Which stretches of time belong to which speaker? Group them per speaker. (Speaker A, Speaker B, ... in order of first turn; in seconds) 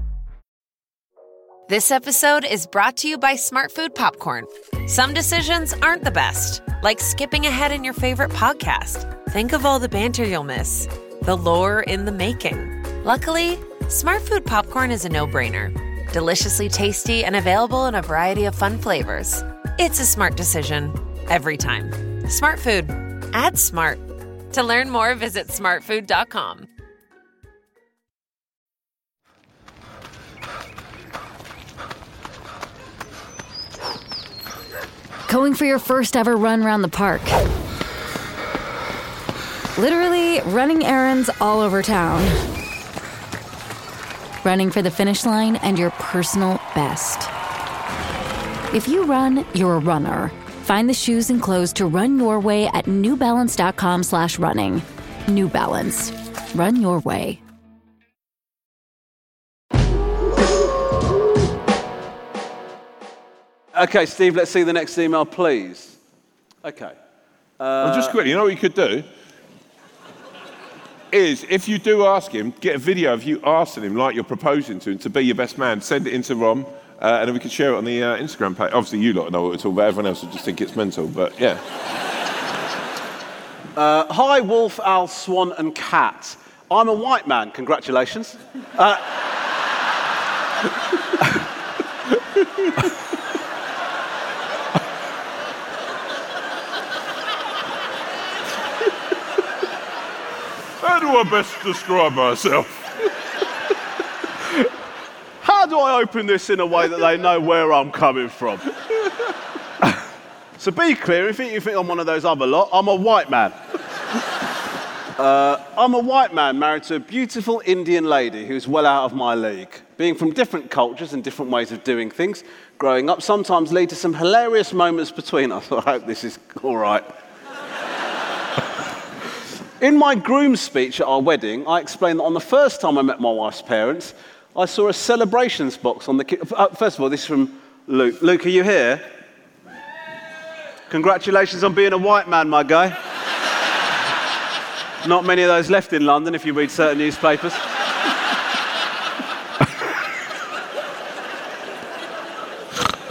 Speaker A: 1.7-26.7
Speaker B: 35.3-37.4, 39.8-42.5, 44.4-47.3, 48.7-57.4
Speaker C: 63.7-66.0, 66.6-67.0, 67.6-68.2, 83.8-89.1, 105.4-108.7, 110.6-113.6, 115.2-127.1, 129.8-139.1, 140.9-143.0, 145.0-147.6
Speaker D: 67.8-69.1, 71.1-81.6, 100.8-103.1